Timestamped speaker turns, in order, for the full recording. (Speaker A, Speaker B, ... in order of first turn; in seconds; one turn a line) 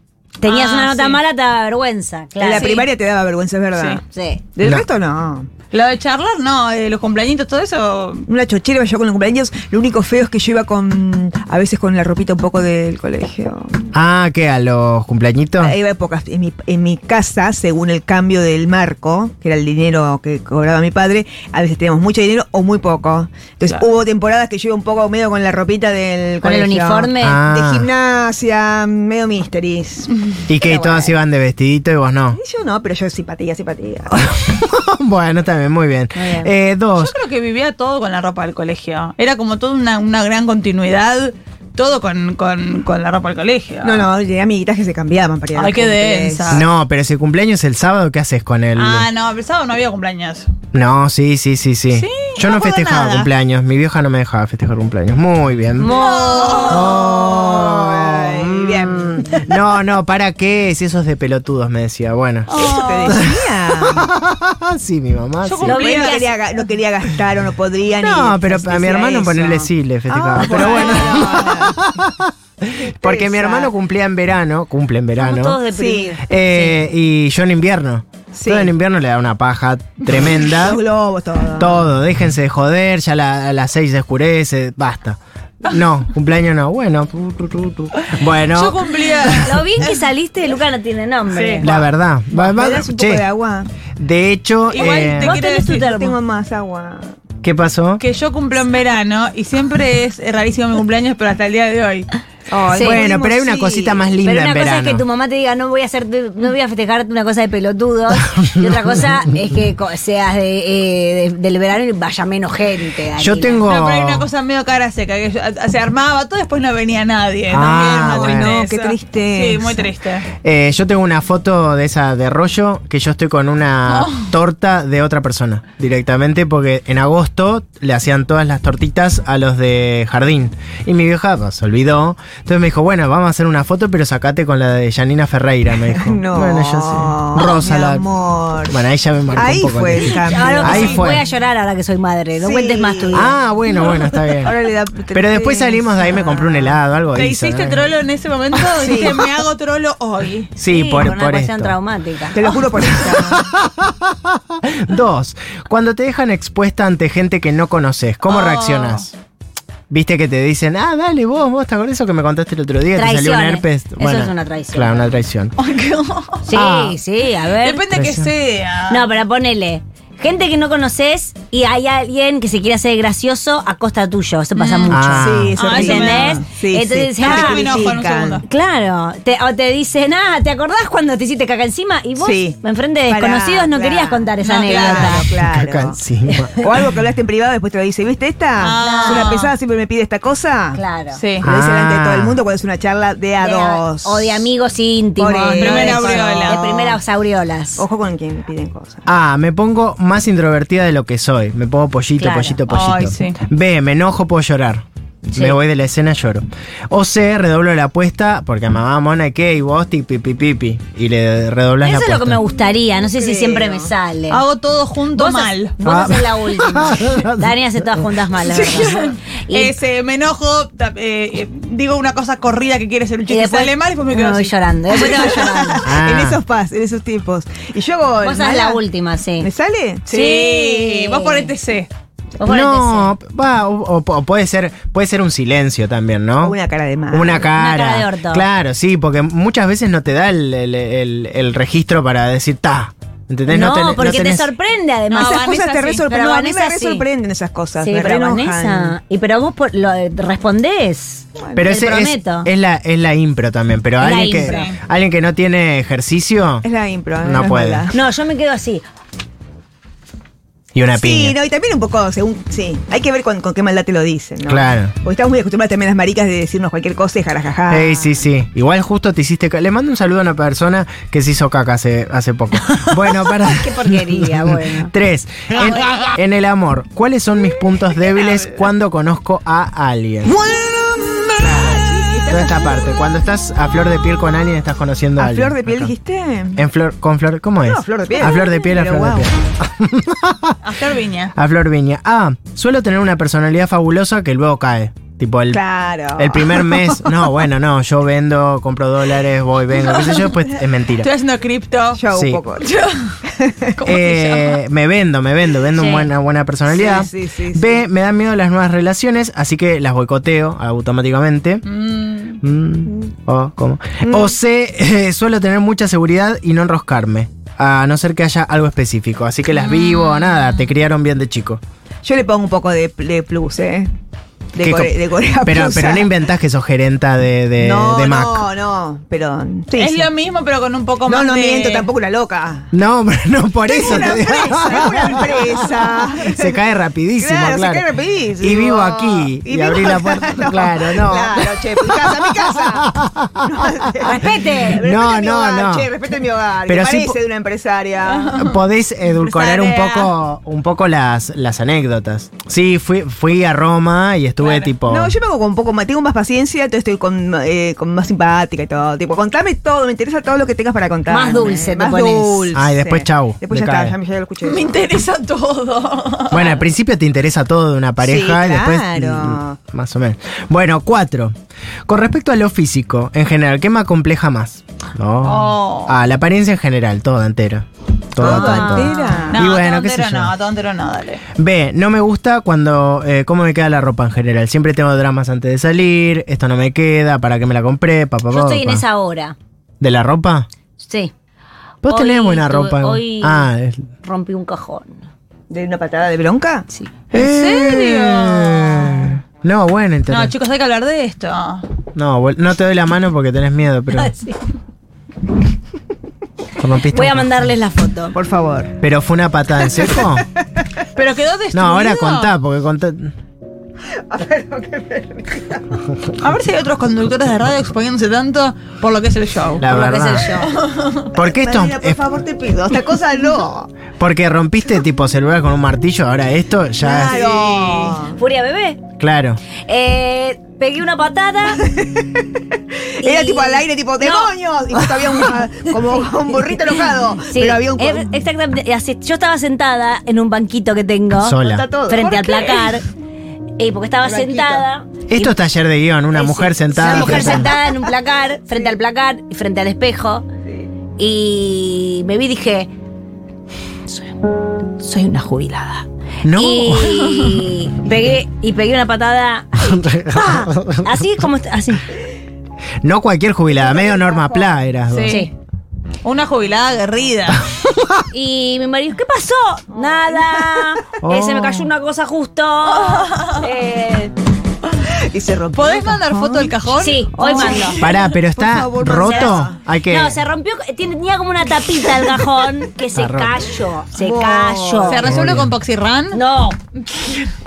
Speaker A: 0.4-2.9
Speaker B: 0.4-1.2
Speaker C: 2.4-4.0
Speaker B: 2.5-2.8
Speaker B: 3.8-4.0
Speaker A: 4.1-4.5
Speaker C: 4.6-5.5
Speaker D: 4.6-4.8
Speaker B: 5.7-8.3
Speaker C: 8.3-13.8
Speaker D: 13.9-15.8
Speaker C: 15.6-31.1
Speaker A: 26.4-27.4
Speaker D: 27.2-27.9
Speaker D: 30.5-32.4
Speaker C: 32.3-34.2
Speaker D: 34.3-37.2
Speaker A: 36.1-36.5
Speaker B: 37.0-44.1
Speaker C: 43.8-46.6
Speaker B: 45.5-46.7
Speaker D: 46.5-49.1
Speaker B: 48.8-50.5
Speaker D: 50.7-55.9
Speaker B: 51.9-53.3
Speaker A: 55.8-56.9
Speaker B: 55.8-57.0
Speaker C: 56.4-59.5
Speaker D: 56.6-65.9
Speaker B: 62.5-63.2
Speaker C: 62.6-64.1
Speaker B: 65.5-66.2
Speaker A: 65.6-66.3
Speaker C: 65.7-71.8
Speaker D: 68.0-75.6
Speaker B: 70.4-71.1
Speaker C: 72.8-73.7
Speaker A: 75.2-76.9
Speaker C: 75.7-76.2
Speaker D: 76.2-80.8
Speaker C: 78.3-78.7
Speaker C: 80.4-81.9
Speaker D: 81.6-89.6
Speaker B: 88.5-89.9
Speaker A: 89.4-91.7
Speaker B: 91.3-91.7
Speaker D: 91.6-93.2
Speaker C: 91.6-93.7
Speaker D: 94.0-95.4
Speaker B: 94.7-95.9
Speaker A: 95.1-96.2
Speaker C: 95.6-97.1
Speaker D: 97.4-98.0
Speaker B: 98.0-102.1
Speaker C: 102.5-104.1
Speaker A: 102.7-103.1
Speaker D: 102.8-105.0
Speaker A: 104.2-113.7
Speaker D: 108.4-108.8
Speaker D: 113.2-114.3
Speaker B: 113.7-120.3
Speaker D: 117.5-118.6
Speaker C: 118.1-119.9
Speaker D: 120.4-138.1
Speaker B: 123.9-124.2
Speaker C: 135.9-138.8
Speaker D: 138.7-141.2
Speaker C: 139.3-141.0
Speaker A: 140.2-143.3
Speaker B: 140.6-141.0
Speaker C: 142.4-146.8
Speaker D: 143.1-144.6
Speaker D: 145.1-148.0
Speaker B: 147.1-150.5
Speaker C: 148.6-149.3
Speaker D: 150.6-151.8
Speaker A: 150.7-152.5
Speaker C: 152.3-153.5
Speaker D: 152.9-159.1
Speaker B: 158.3-159.1
Speaker D: 159.9-165.6
Speaker A: 162.9-165.1
Speaker B: 165.6-166.6
Speaker A: 166.5-167.8
Speaker D: 166.5-167.0
Speaker B: 167.6-169.1
Speaker D: 167.9-168.3
Speaker A: 168.9-177.7
Speaker B: 174.6-175.0
Speaker D: 174.9-175.6
Speaker C: 175.1-178.4
Speaker B: 175.6-176.4
Speaker B: 177.2-178.5
Speaker A: 178.5-185.3
Speaker C: 182.2-186.0
Speaker B: 184.4-185.2
Speaker D: 185.4-186.7
Speaker C: 186.6-190.8
Speaker B: 188.6-189.5
Speaker A: 188.8-189.3
Speaker A: 190.8-191.2
Speaker B: 191.2-191.5
Speaker D: 191.4-192.4
Speaker C: 191.4-194.5
Speaker A: 193.4-197.8
Speaker C: 195.2-197.0
Speaker B: 195.6-196.6
Speaker C: 197.8-199.0
Speaker D: 199.1-212.4
Speaker A: 202.2-202.6
Speaker B: 202.7-203.4
Speaker A: 205.3-205.6
Speaker A: 211.8-214.4
Speaker C: 212.9-213.9
Speaker B: 214.3-215.8
Speaker A: 215.1-219.8
Speaker D: 215.8-218.1
Speaker B: 218.3-225.3
Speaker A: 223.3-225.9
Speaker C: 224.9-228.8
Speaker D: 225.8-226.4
Speaker A: 228.2-229.5
Speaker C: 229.4-230.3
Speaker B: 230.1-231.9
Speaker A: 230.1-231.5
Speaker A: 232.4-233.1
Speaker D: 232.4-236.6
Speaker C: 236.4-237.5
Speaker D: 237.1-244.5
Speaker A: 237.5-238.5
Speaker A: 243.5-245.4
Speaker B: 245.1-246.1
Speaker C: 245.1-249.0
Speaker A: 246.1-247.1
Speaker A: 247.8-252.5
Speaker D: 251.6-256.7
Speaker A: 254.0-254.7
Speaker B: 254.4-254.8
Speaker C: 256.6-258.0
Speaker D: 257.2-257.8
Speaker A: 257.9-258.8
Speaker D: 260.8-261.4
Speaker C: 260.9-268.2
Speaker D: 264.5-264.9
Speaker D: 267.7-280.4
Speaker A: 273.4-274.9
Speaker C: 280.3-283.0
Speaker D: 282.3-285.9
Speaker C: 285.2-286.6
Speaker D: 286.6-290.6
Speaker C: 287.6-289.3
Speaker B: 290.6-291.3
Speaker D: 291.4-295.6
Speaker C: 295.5-297.0
Speaker D: 296.2-301.1
Speaker B: 299.9-300.3
Speaker B: 301.0-302.0
Speaker C: 301.9-302.7
Speaker D: 302.1-302.4
Speaker B: 302.6-303.2
Speaker C: 303.2-303.8
Speaker B: 303.8-304.6
Speaker D: 303.8-311.6
Speaker A: 305.8-306.1
Speaker C: 306.7-307.8
Speaker B: 311.6-312.4
Speaker D: 312.4-321.6
Speaker C: 314.0-314.4
Speaker B: 319.5-320.7
Speaker C: 322.0-323.9
Speaker C: 324.5-326.1
Speaker D: 324.6-328.5
Speaker C: 327.6-330.1
Speaker B: 329.8-331.9
Speaker C: 331.1-332.7
Speaker D: 332.7-337.9
Speaker C: 333.7-336.6
Speaker C: 337.2-348.5
Speaker D: 338.4-341.6
Speaker D: 342.2-343.4
Speaker A: 344.0-344.9
Speaker D: 344.8-345.9
Speaker D: 346.7-347.2
Speaker B: 348.1-348.6
Speaker D: 348.4-355.1
Speaker B: 349.1-350.1
Speaker B: 354.4-354.7
Speaker C: 354.9-364.8
Speaker A: 361.1-362.6
Speaker D: 362.5-363.9
Speaker B: 364.4-366.6
Speaker D: 366.3-371.3
Speaker C: 368.0-369.6
Speaker D: 371.9-380.4
Speaker B: 375.2-376.0
Speaker C: 378.2-379.4
Speaker A: 378.2-379.4
Speaker B: 379.3-381.2
Speaker D: 381.4-388.9
Speaker A: 388.3-389.4
Speaker D: 389.8-390.5
Speaker A: 390.8-391.1
Speaker D: 391.8-393.9
Speaker A: 391.9-393.5
Speaker A: 394.0-395.0
Speaker C: 395.5-396.7
Speaker D: 397.1-400.3
Speaker B: 397.1-399.1
Speaker B: 400.1-401.6
Speaker D: 401.9-404.1
Speaker A: 404.0-404.4
Speaker D: 406.6-407.6
Speaker A: 406.9-408.2
Speaker C: 408.1-408.7
Speaker D: 408.8-410.3
Speaker C: 409.7-410.2
Speaker B: 411.0-412.3
Speaker D: 411.5-413.1
Speaker C: 414.0-415.8
Speaker B: 416.2-419.7
Speaker D: 419.6-420.3
Speaker A: 419.6-420.6
Speaker B: 420.4-421.1
Speaker D: 421.1-422.0
Speaker C: 421.2-423.7
Speaker D: 424.0-427.3
Speaker C: 426.8-428.2
Speaker B: 427.1-427.9
Speaker A: 428.2-428.8
Speaker D: 429.0-429.4
Speaker A: 429.7-431.6
Speaker C: 431.6-432.3
Speaker A: 433.0-434.3
Speaker C: 433.0-438.2
Speaker A: 437.3-442.9
Speaker D: 441.2-441.7
Speaker C: 441.4-442.8
Speaker A: 443.6-445.4
Speaker C: 444.0-444.7
Speaker D: 445.1-447.5
Speaker A: 446.1-450.3
Speaker C: 446.8-447.7
Speaker C: 448.5-448.8
Speaker A: 451.0-452.7
Speaker A: 454.8-461.9
Speaker D: 456.2-457.3
Speaker D: 459.6-461.1
Speaker D: 462.8-465.2
Speaker C: 463.5-464.7
Speaker B: 464.9-465.3
Speaker B: 466.0-467.4
Speaker D: 467.5-468.0
Speaker A: 468.1-474.1
Speaker C: 469.7-470.6
Speaker D: 471.0-471.7
Speaker B: 472.7-473.4
Speaker C: 474.9-476.6
Speaker B: 475.5-478.0
Speaker A: 476.8-477.8
Speaker C: 477.1-479.6
Speaker D: 477.7-480.2
Speaker B: 479.1-479.4
Speaker A: 479.9-485.1
Speaker D: 482.9-483.4
Speaker C: 483.9-485.1
Speaker B: 484.9-486.2
Speaker D: 485.0-485.5
Speaker A: 486.1-486.6